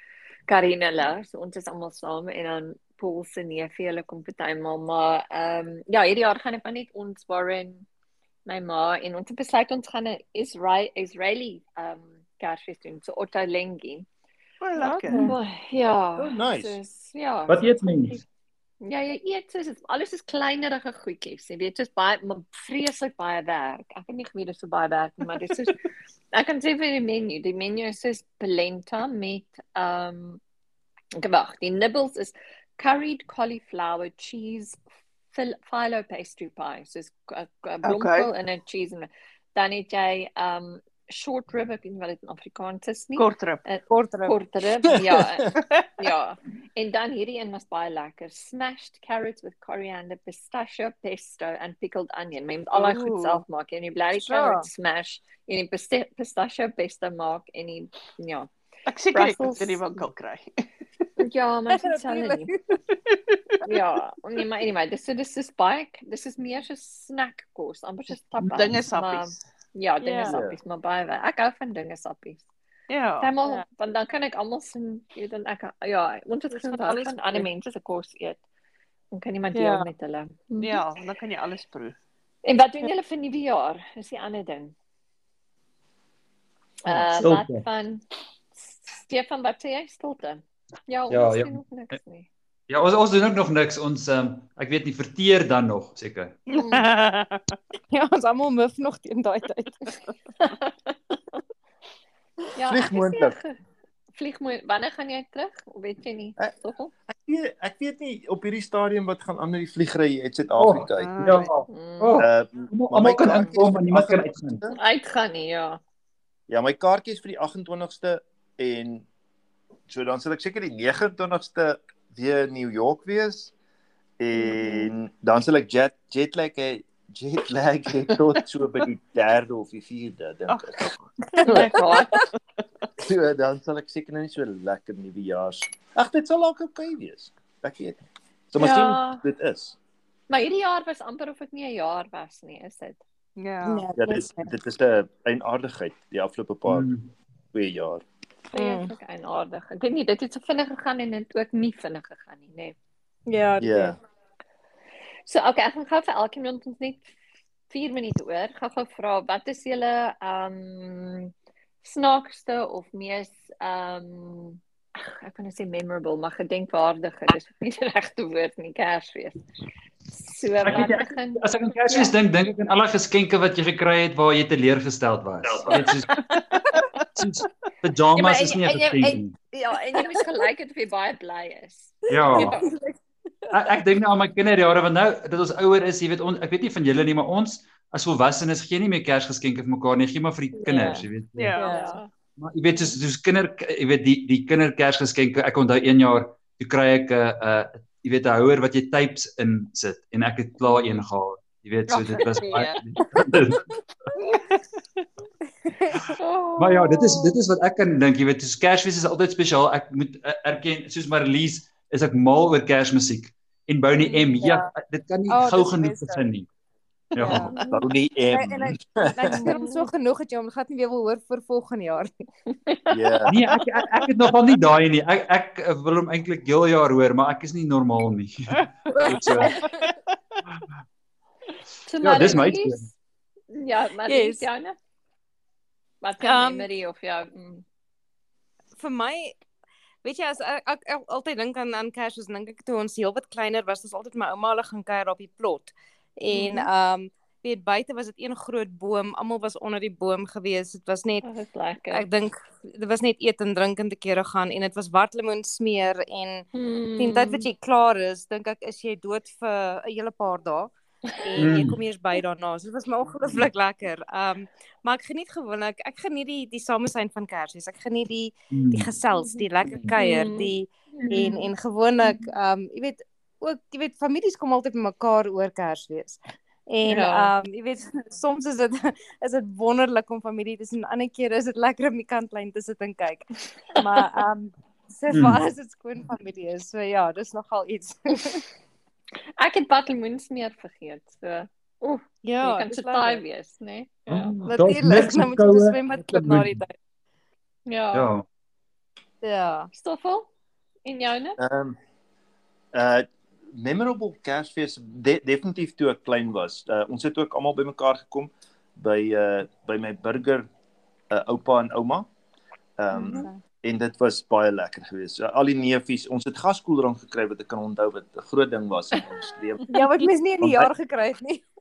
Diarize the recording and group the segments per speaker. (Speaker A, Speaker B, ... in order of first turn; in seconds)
Speaker A: 0.5-7.8, 8.5-14.1, 14.8-18.2, 18.8-25.8, 26.3-30.4, 31.2-34.8, 35.3-58.5, 59.1-60.0, 61.2-62.5, 63.7-72.5, 73.2-78.4, 79.1-80.8, 82.4-84.7, 86.8-88.0, 88.5-92.3, 96.5-96.8, 100.4-101.4, 102.6-103.6, 104.1-106.9, 111.7-112.2, 114.7-115.8, 124.3-124.9, 131.4-132.2, 138.6-139.2, 140.3-143.0, 148.5-152.8, 155.3-157.1, 157.7-161.3, 161.8-169.4, 170.1-172.1, 175.7-176.2, 178.2-179.1, 179.6-182.7, 191.6-192.1, 206.2-207.4, 217.3-217.8, 219.3-219.9, 229.4-229.8, 231.8-232.9, 233.5-234.8, 236.0-237.7, 246.3-246.7, 251.2-252.1, 256.5-257.4, 269.2-269.4, 270.0-271.5, 276.8-277.3, 289.4-294.3, 297.7-298.1, 299.7-300.3, 300.9-301.4, 312.9-313.3
Speaker B: 14.6-15.3, 37.8-38.3, 43.2-43.6, 45.6-45.9, 52.7-53.4, 58.9-60.5, 62.9-63.6, 68.5-69.4, 72.9-73.3, 80.6-82.0, 96.5-97.6, 110.9-111.6, 130.5-131.6, 143.4-143.9, 176.5-176.9, 191.4-191.7, 201.9-202.8, 204.2-205.1, 228.6-229.1, 229.8-230.4
Speaker C: 16.2-16.8, 70.2-70.6, 102.7-103.4, 107.1-111.3, 112.2-114.8, 116.5-119.1, 119.9-123.5, 124.2-130.9, 131.4-131.7, 133.0-138.0, 138.5-139.8, 144.0-146.9, 147.5-148.0, 153.6-154.0, 175.4-175.9, 217.6-219.5, 222.9-223.3, 301.4-301.8, 302.7-310.5, 311.1-312.1, 312.8-319.7, 320.4-320.7
Speaker D: 17.5-18.2, 68.5-68.8, 86.9-87.6, 91.1-92.0, 92.7-96.4, 110.6-114.6, 146.7-147.1, 170.6-176.2, 177.2-179.4, 182.1-182.6, 183.5-191.6, 192.4-203.7, 206.6-216.5, 217.1-217.5, 223.3-229.6, 232.0-232.9, 261.4-261.8, 268.5-268.9, 269.7-269.9, 285.1-285.4, 294.1-296.6, 297.9-298.2
Speaker E: 43.9-44.4, 54.2-54.7, 61.7-62.6, 70.0-70.4, 76.5-77.5, 79.5-79.9, 97.9-99.9, 143.7-144.5, 148.6-148.9, 153.3-154.0, 178.2-180.2, 182.2-183.0, 190.6-192.0, 205.7-206.2, 214.0-214.7, 215.3-216.2, 217.2-217.6, 218.3-222.1, 234.1-234.5, 236.2-236.7, 238.8-239.4, 240.0-251.3, 251.9-256.4, 257.0-288.4, 292.2-293.2, 294.4-296.7, 299.2-299.7, 313.1-313.4, 319.7-321.4